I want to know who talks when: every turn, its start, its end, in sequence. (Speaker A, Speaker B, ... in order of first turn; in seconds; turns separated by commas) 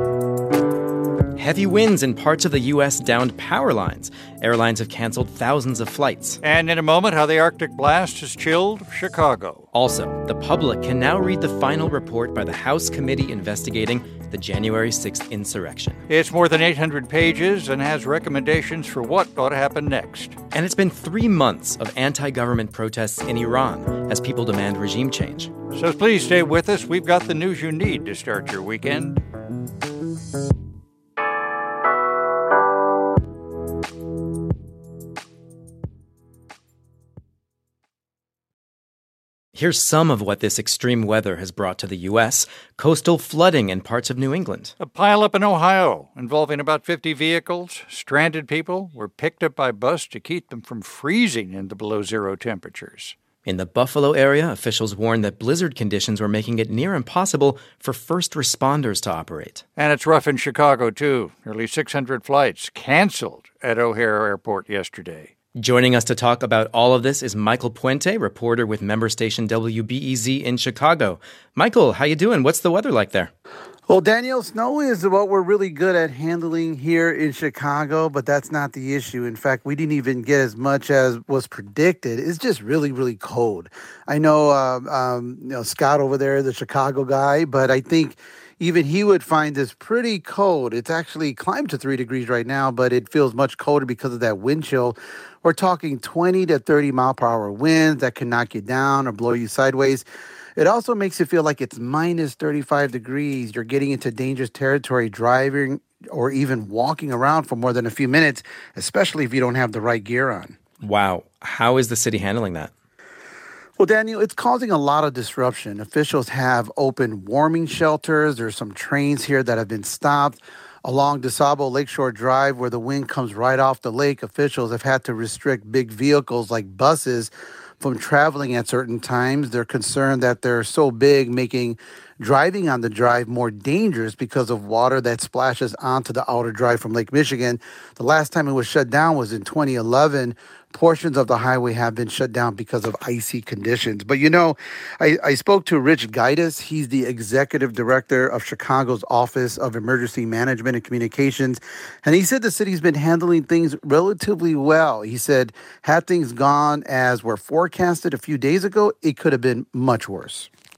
Speaker A: 1.4-6.4, Speaker B: 6.4-9.7, Speaker A: 9.7-16.0, Speaker B: 16.1-20.4, Speaker A: 20.5-25.5, Speaker B: 25.7-29.2, Speaker A: 39.5-44.7, Speaker B: 44.8-53.2, Speaker A: 53.5-59.6, Speaker B: 59.8-65.3, Speaker A: 65.6-73.3, Speaker C: 73.9-100.0, Speaker C: 100.6-110.6, Speaker A: 110.8-112.7, Speaker C: 113.8-160.5